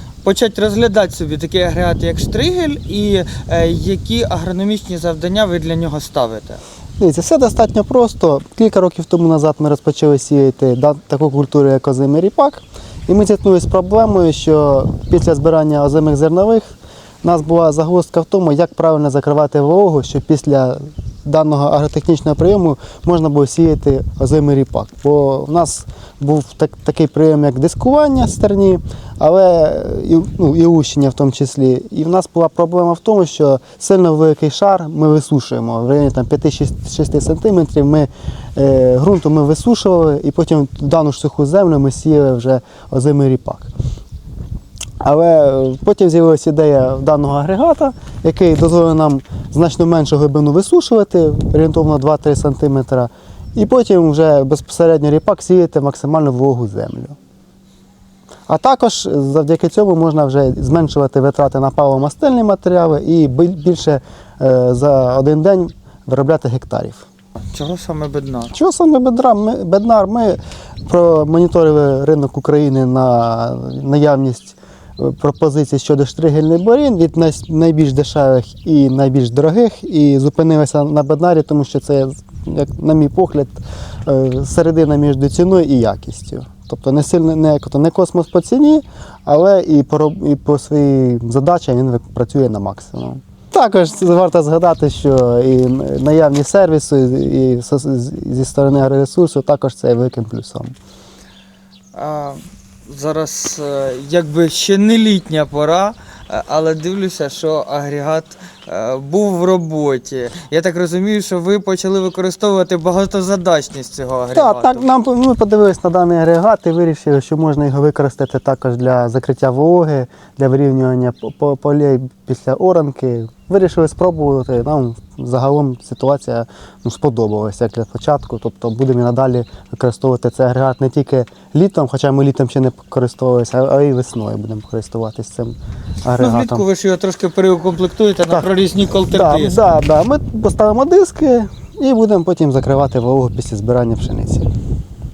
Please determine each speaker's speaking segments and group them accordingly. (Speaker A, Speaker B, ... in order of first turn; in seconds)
Speaker A: 0.2-6.6, 67.5-68.5, 101.9-114.8, 136.1-139.6
Speaker B: 7.0-43.7, 45.0-57.1, 58.5-67.1, 68.5-100.8, 114.3-136.7, 139.1-144.5